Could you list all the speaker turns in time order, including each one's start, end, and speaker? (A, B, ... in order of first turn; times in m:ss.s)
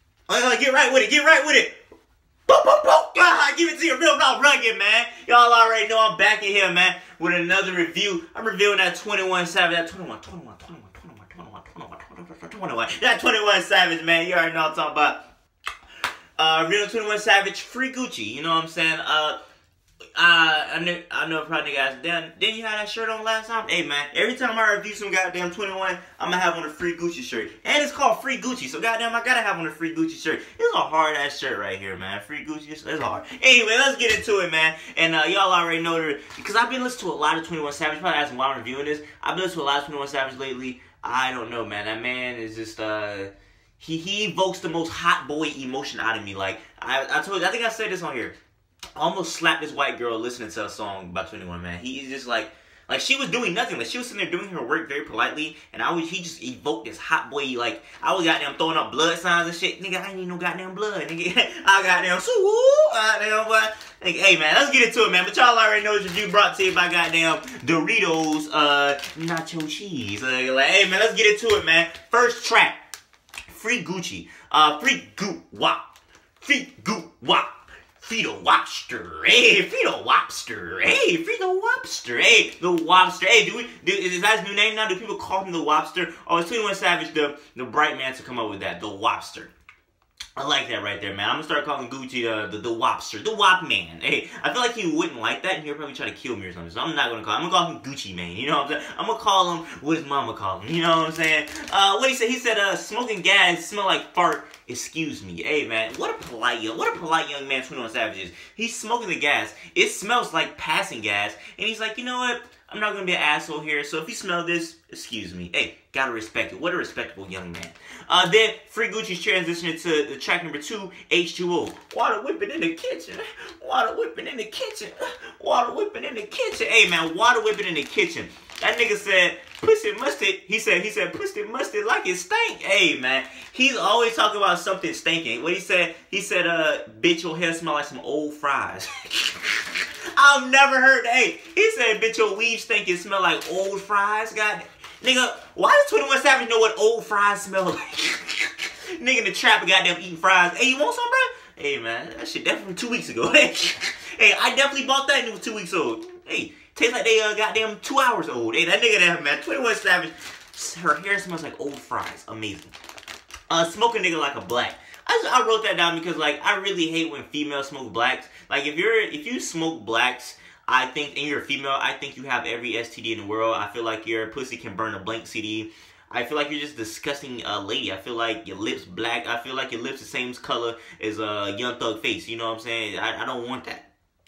0:00.3-0:01.8 A
0:02.5-0:15.2 A
0:16.4-0:19.4 A
0:20.2-0:48.3 A
0:49.0-1:12.8 A
1:13.5-1:15.8 A
1:16.4-1:29.5 A
1:30.4-2:42.7 A
2:43.5-3:03.9 A